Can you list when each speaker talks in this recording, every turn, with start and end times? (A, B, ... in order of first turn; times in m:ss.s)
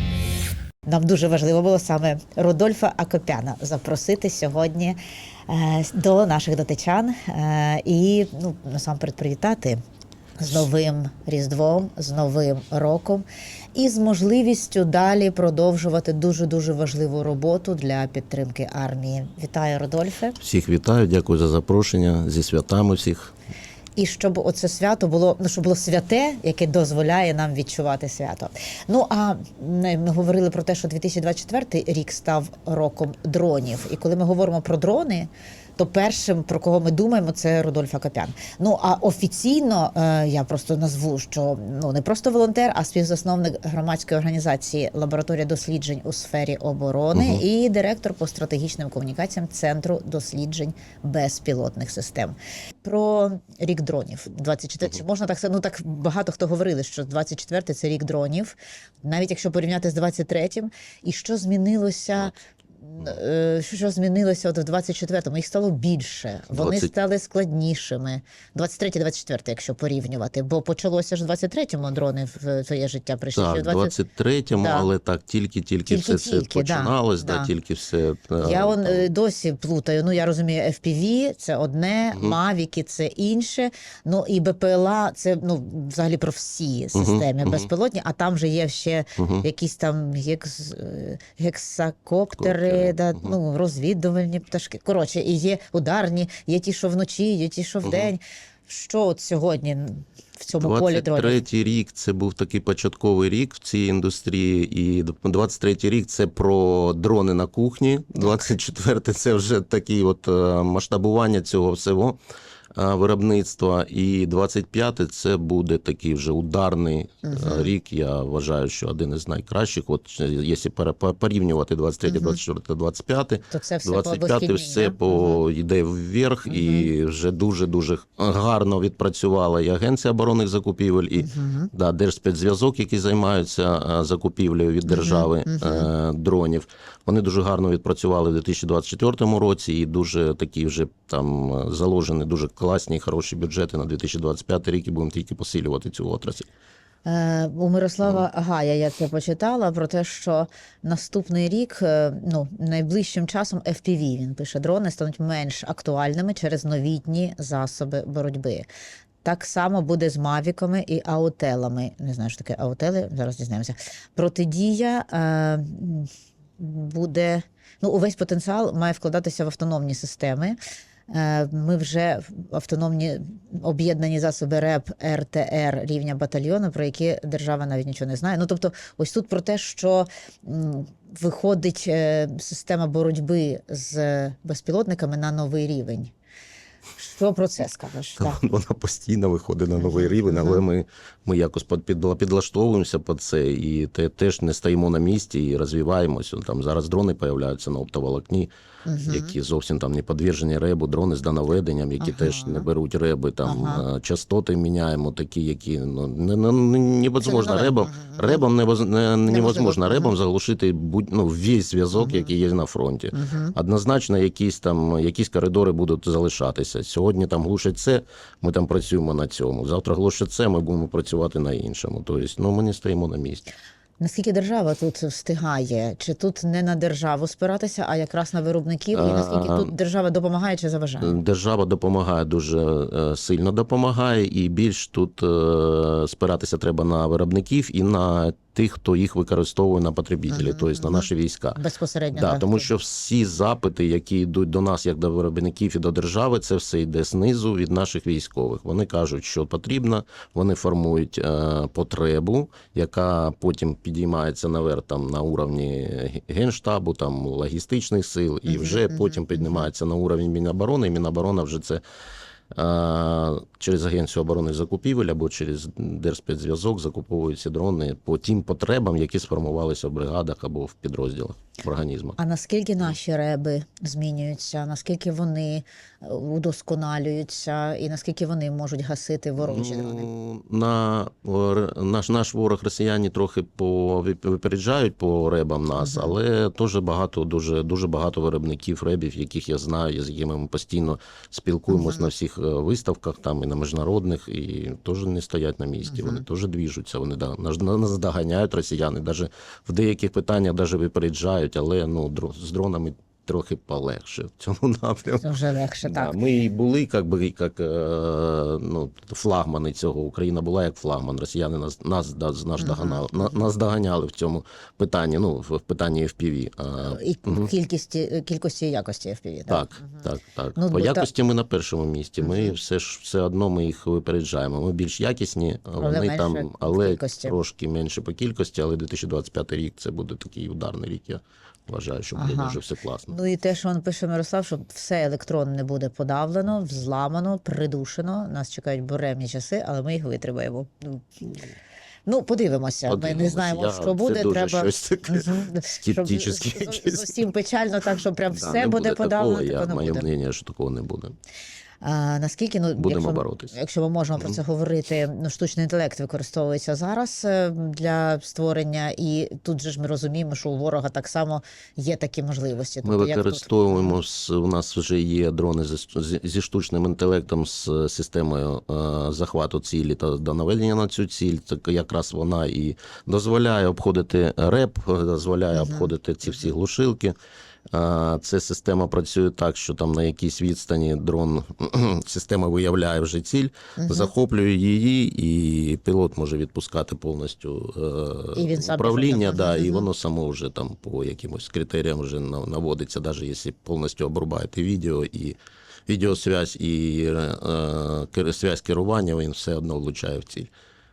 0:00.9-0:05.0 A
0:05.5-0:09.8 A
0:10.4-0:20.4 A
0:20.4-0:23.3 B
0:24.0-1:14.0 A
0:47.1-0:47.4 B
1:06.5-1:06.9 B
1:13.4-1:19.1 B
1:14.5-1:14.9 A
1:15.9-1:17.5 A
1:18.4-1:41.4 A
1:22.1-1:22.4 B
1:27.0-1:27.7 B
1:29.2-1:29.4 B
1:32.4-1:33.4 B
1:37.8-1:38.1 B
1:40.6-1:52.2 B
1:48.2-1:48.5 A
1:52.8-2:26.5 B
1:57.2-1:57.7 A
2:02.1-2:02.4 A
2:03.5-2:05.4 A
2:06.5-2:06.9 A
2:11.2-2:11.7 A
2:14.8-2:15.9 A
2:27.0-2:38.7 A
2:39.2-2:50.6 A
2:51.1-3:06.1 A
3:07.0-3:08.4 A
3:08.2-3:18.5 B
3:09.8-3:10.7 A
3:18.9-3:19.4 A
3:19.0-3:43.5 B
3:22.0-3:22.7 A
3:23.4-3:23.9 A
3:27.2-3:28.4 A
3:29.3-3:30.2 A
3:31.9-3:32.4 A
3:33.1-3:33.6 A
3:44.0-3:51.2 A
3:48.9-3:49.7 B
3:51.0-4:01.6 B
4:00.3-4:02.7 A
4:02.1-4:21.8 B
4:18.5-4:19.7 A
4:22.5-4:32.2 B
4:32.2-4:40.1 A
4:39.4-5:05.3 B
4:45.8-4:46.2 A
4:51.7-4:52.1 A
4:55.9-4:56.2 A
5:05.2-5:06.2 A
5:05.8-5:17.5 B
5:12.6-5:13.5 A
5:16.8-5:20.0 A
5:19.5-5:33.2 B
5:20.6-5:21.1 A
5:22.2-5:22.6 A
5:25.8-5:27.4 A
5:32.2-5:41.1 A
5:42.1-5:50.1 A
5:42.9-5:47.3 B
5:48.3-5:51.1 B
5:51.8-6:04.0 A
5:52.8-5:53.5 B
6:02.8-6:17.2 B
6:15.5-6:16.5 A
6:17.7-6:40.5 B
6:23.8-6:24.1 A
6:28.4-6:29.9 A